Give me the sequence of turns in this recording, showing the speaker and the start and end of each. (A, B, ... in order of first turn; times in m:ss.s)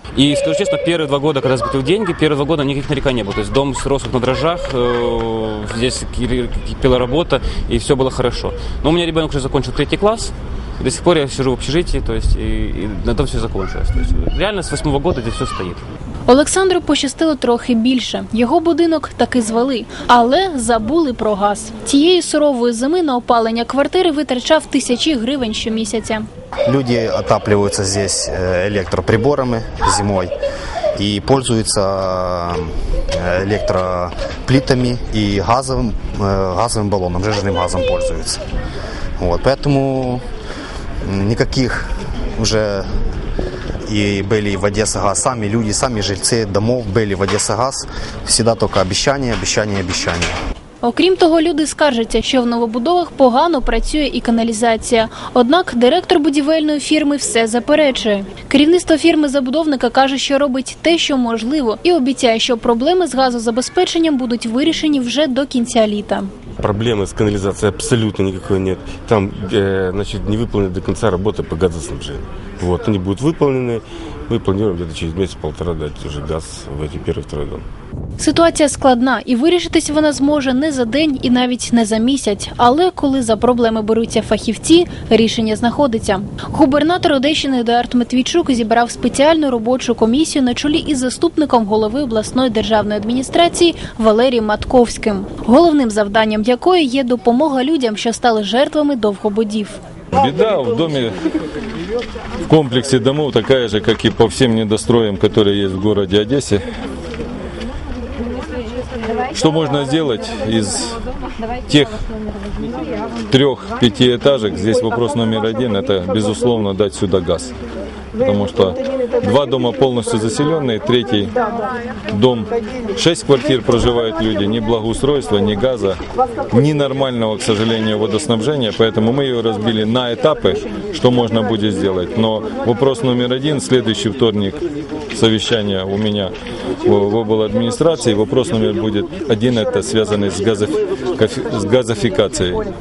0:00.2-0:15.8 A
0:16.3-0:26.2 B
0:26.7-0:30.3 C
0:31.0-0:38.4 C
0:39.2-0:40.2 C
0:41.0-0:42.9 C
0:43.8-0:50.3 C
0:50.8-1:06.3 B
1:06.6-1:17.6 D
1:18.2-1:39.8 B
1:40.1-1:41.2 E
1:42.4-1:46.7 E
1:49.3-1:51.0 E
1:51.7-1:52.0 E
1:53.3-1:57.5 E
1:58.2-2:01.3 E
2:02.1-2:06.0 E
2:06.5-2:14.6 E
2:15.1-2:16.3 E
2:16.8-2:22.7 E